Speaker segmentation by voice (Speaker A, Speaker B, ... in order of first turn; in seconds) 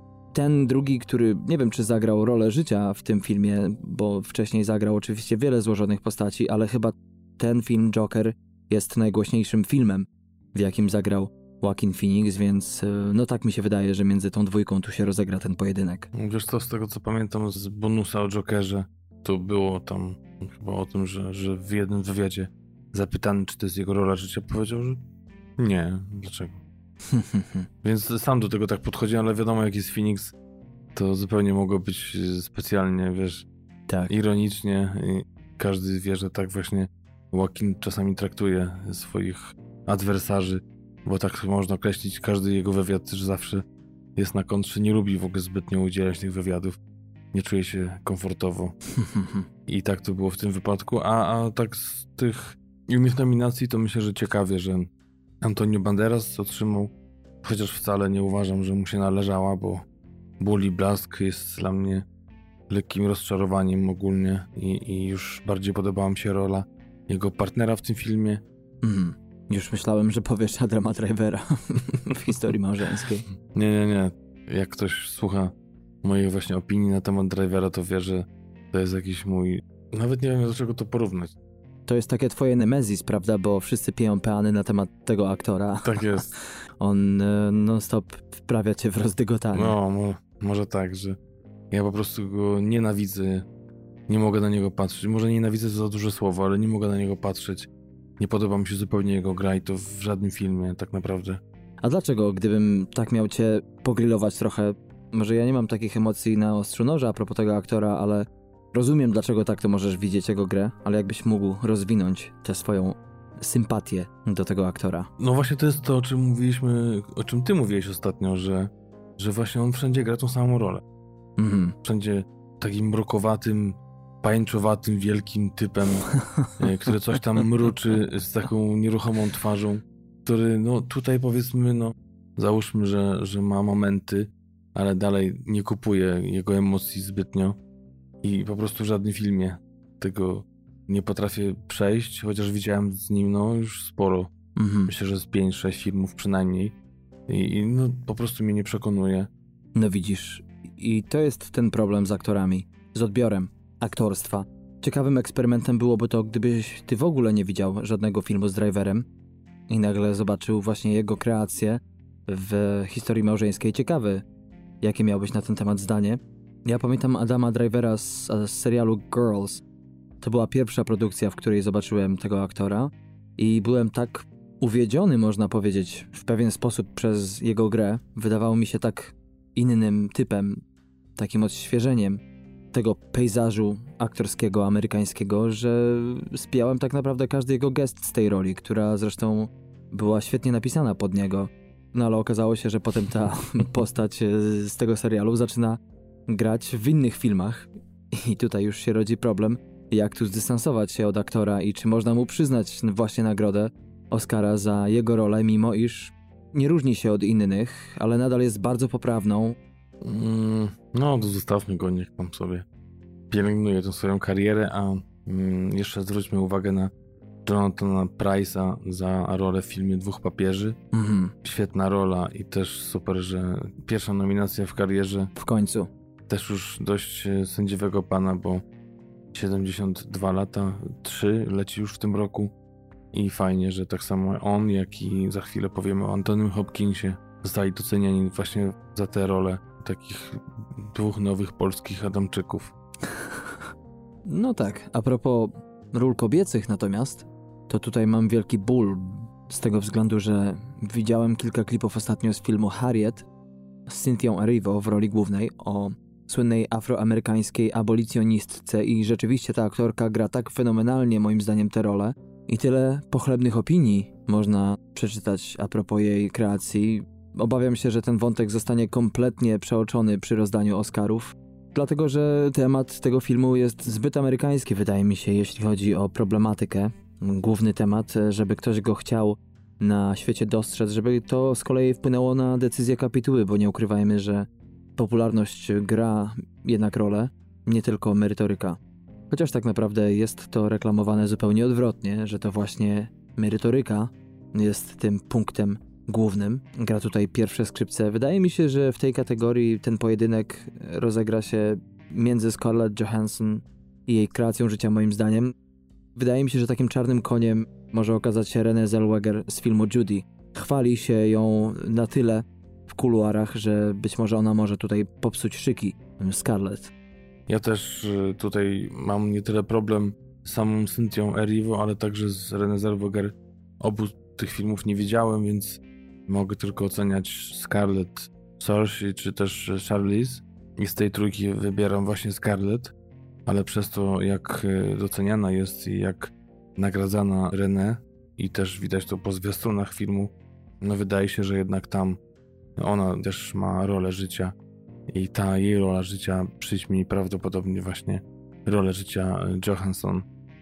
Speaker A: 0.3-16.1, 27.1-27.6, 49.0-49.4, 68.8-73.2, 81.9-89.8, 101.8-115.1, 121.4-121.8, 144.6-144.9, 149.8-159.1, 159.7-164.2, 164.8-169.6, 170.2-180.6, 181.2-182.2, 182.7-209.6, 220.9-221.3, 225.4-225.9, 244.3-253.3, 253.9-288.8, 289.3-305.6, 306.1-316.9
Speaker B: 16.1-25.1, 25.6-26.6, 27.8-30.3, 30.9-33.5, 34.1-43.6, 44.1-46.8, 47.3-48.8, 49.6-54.9, 55.4-59.8, 60.4-62.1, 62.7-68.4, 73.5-81.4, 85.8-86.3, 89.5-91.2, 91.7-93.5, 94.1-101.4, 115.2-120.8, 121.8-137.6, 138.2-144.3, 144.9-146.8, 147.3-149.3, 210.0-212.6, 213.3-216.9, 217.4-220.8, 221.4-225.3, 226.3-228.6, 229.3-232.5, 233.1-242.7, 317.5-332.9, 333.4-342.2, 342.8-344.6, 345.1-350.3